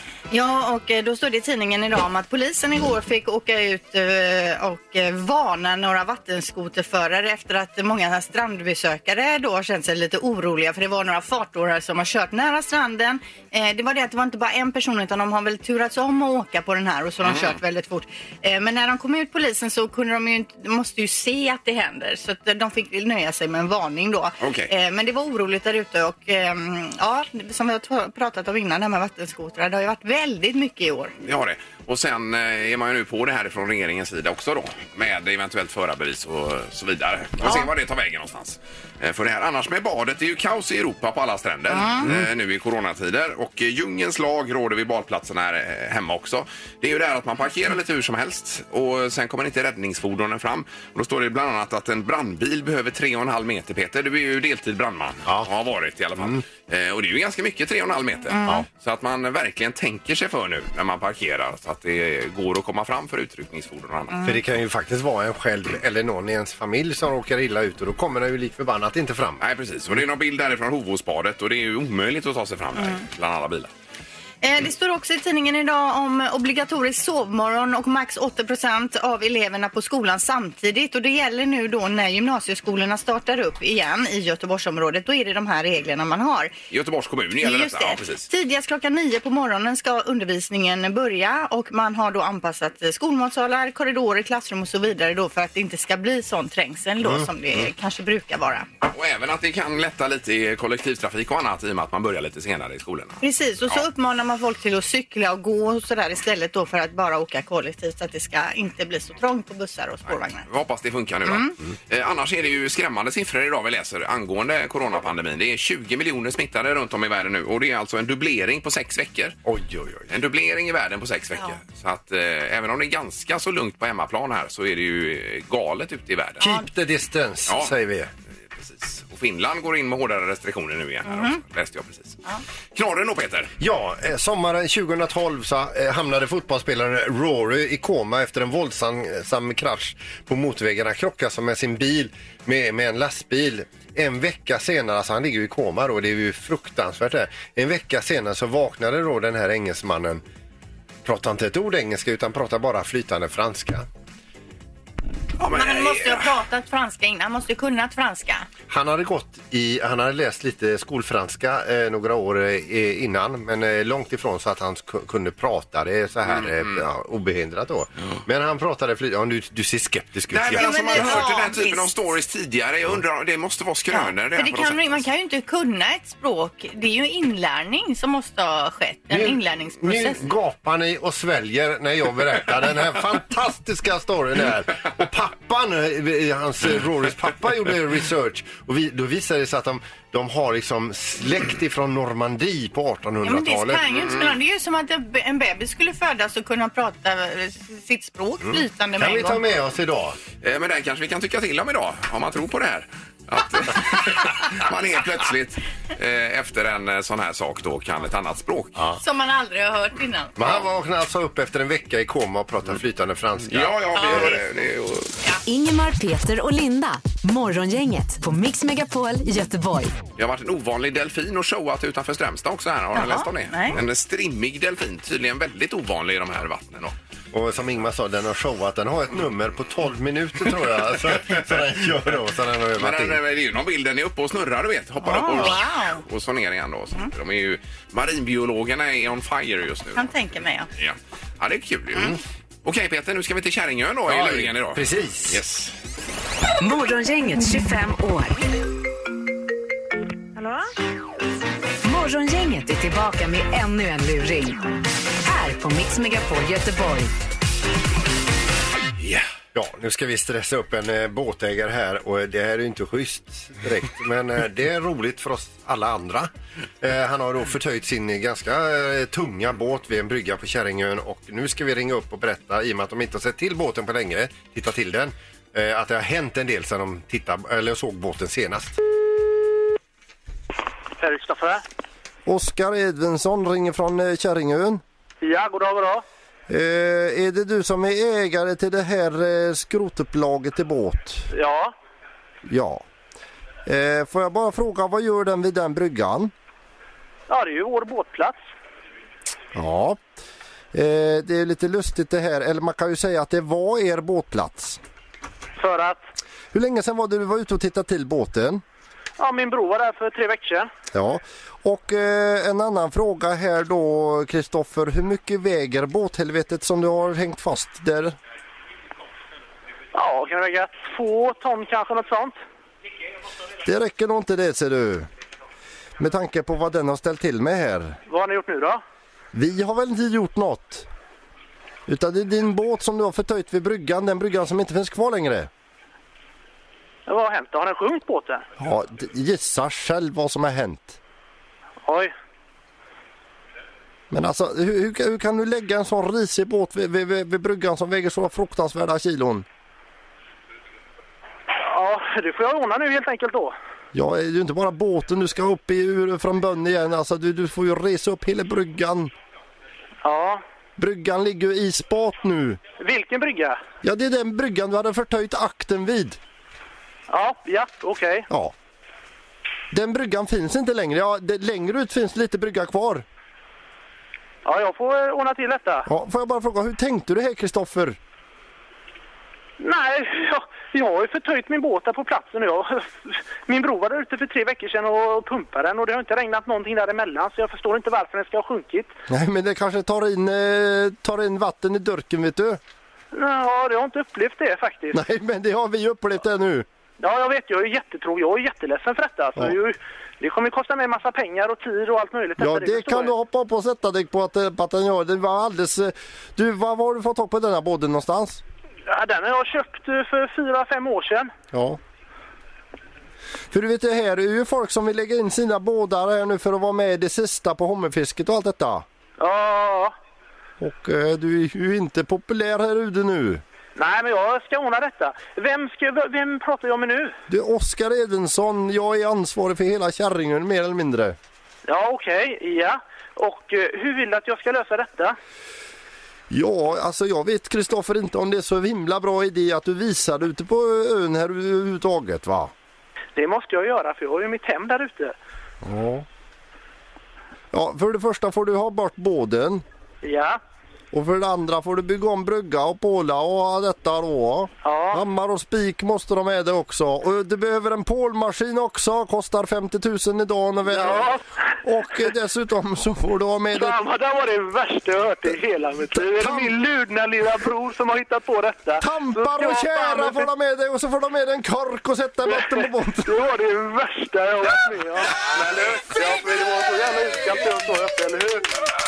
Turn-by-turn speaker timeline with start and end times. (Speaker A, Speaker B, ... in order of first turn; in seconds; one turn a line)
Speaker A: 0.3-31.1
Speaker B: 17.2-17.6
Speaker B: 24.4-24.7
Speaker B: 31.2-64.3
Speaker A: 37.4-37.7
Speaker A: 41.7-42.2
Speaker A: 58.3-58.6
Speaker A: 64.1-64.4
Speaker C: 64.2-69.4
Speaker B: 69.4-73.7
Speaker A: 72.8-73.0
Speaker A: 74.4-86.5
Speaker B: 86.7-88.3
Speaker A: 87.4-98.7
Speaker C: 97.0-97.3
Speaker B: 98.9-103.8
Speaker A: 103.2-110.5
Speaker B: 110.1-119.4
Speaker A: 111.3-111.5
Speaker C: 119.5-120.1
Speaker B: 120.1-126.4
Speaker C: 126.4-128.1
Speaker B: 127.5-127.7
Speaker B: 128.5-132.2
Speaker A: 131.1-131.4
Speaker B: 132.7-133.5
Speaker C: 133.6-150.2
Speaker C: 151.1-153.9
Speaker B: 155.4-156.3
Speaker A: 155.5-158.5
Speaker C: 158.7-171.3
Speaker B: 166.3-166.8
Speaker B: 170.3-175.0
Speaker A: 170.6-171.9
Speaker A: 173.9-180.2
Speaker C: 179.1-193.9
Speaker A: 193.2-199.4
Speaker C: 198.4-200.2
Speaker B: 200.4-208.8
Speaker A: 209.0-210.3
Speaker C: 210.4-214.4
Speaker B: 213.5-215.1
Speaker A: 213.9-214.3
Speaker D: 215.5-220.0
Speaker B: 220.2-226.9
Speaker A: 222.9-223.8
Speaker C: 227.3-233.2
Speaker B: 232.8-240.1
Speaker A: 235.0-236.0
Speaker A: 239.9-240.7
Speaker B: 240.8-245.7
Speaker C: 244.1-245.4
Speaker D: 246.6-248.4
Speaker D: 251.8-254.6
Speaker D: 255.2-257.1
Speaker B: 259.0-259.2
Speaker C: 259.6-266.3
Speaker C: 266.8-278.8
Speaker E: 281.0-281.6
Speaker C: 282.3-284.8
Speaker E: 285.2-286.0
Speaker C: 286.5-291.3
Speaker E: 291.3-291.7
Speaker C: 292.4-292.9
Speaker C: 293.7-296.3
Speaker E: 297.3-298.4
Speaker C: 299.5-300.0
Speaker C: 300.7-304.8
Speaker E: 305.6-306.0
Speaker C: 306.5-308.6
Speaker E: 309.2-310.7
Speaker C: 310.9-318.2
Speaker E: 319.9-322.4
Speaker C: 323.6-325.1
Speaker C: 326.0-328.0
Speaker E: 328.1-328.8
Speaker C: 329.3-330.9
Speaker C: 331.9-335.5
Speaker E: 337.1-338.5
Speaker C: 338.6-341.0
Speaker E: 341.9-342.1
Speaker C: 344.1-349.5
Speaker E: 351.6-353.6
Speaker C: 353.9-359.1
Speaker E: 360.0-360.4
Speaker C: 360.8-362.6
Speaker E: 362.8-363.6
Speaker C: 363.8-366.2
Speaker E: 367.1-368.3
Speaker C: 369.7-373.1
Speaker E: 374.4-375.9
Speaker C: 375.9-378.0
Speaker E: 379.6-388.9
Speaker C: 389.1-392.6
Speaker E: 393.1-395.0
Speaker C: 394.9-396.7
Speaker E: 397.0-403.1
Speaker C: 402.4-408.4
Speaker E: 408.9-411.3
Speaker C: 411.5-411.8
Speaker C: 413.5-418.9
Speaker E: 419.2-419.9
Speaker C: 420.6-423.4
Speaker E: 423.8-427.1
Speaker C: 427.3-431.2
Speaker E: 431.7-435.2
Speaker C: 436.3-442.5
Speaker E: 443.2-445.1
Speaker C: 445.6-446.1
Speaker C: 447.5-449.6
Speaker E: 450.0-450.4
Speaker C: 450.9-463.8
Speaker E: 454.6-455.0
Speaker E: 460.7-461.2
Speaker E: 463.5-470.3
Speaker C: 465.9-466.5
Speaker C: 468.8-473.1
Speaker E: 472.2-478.5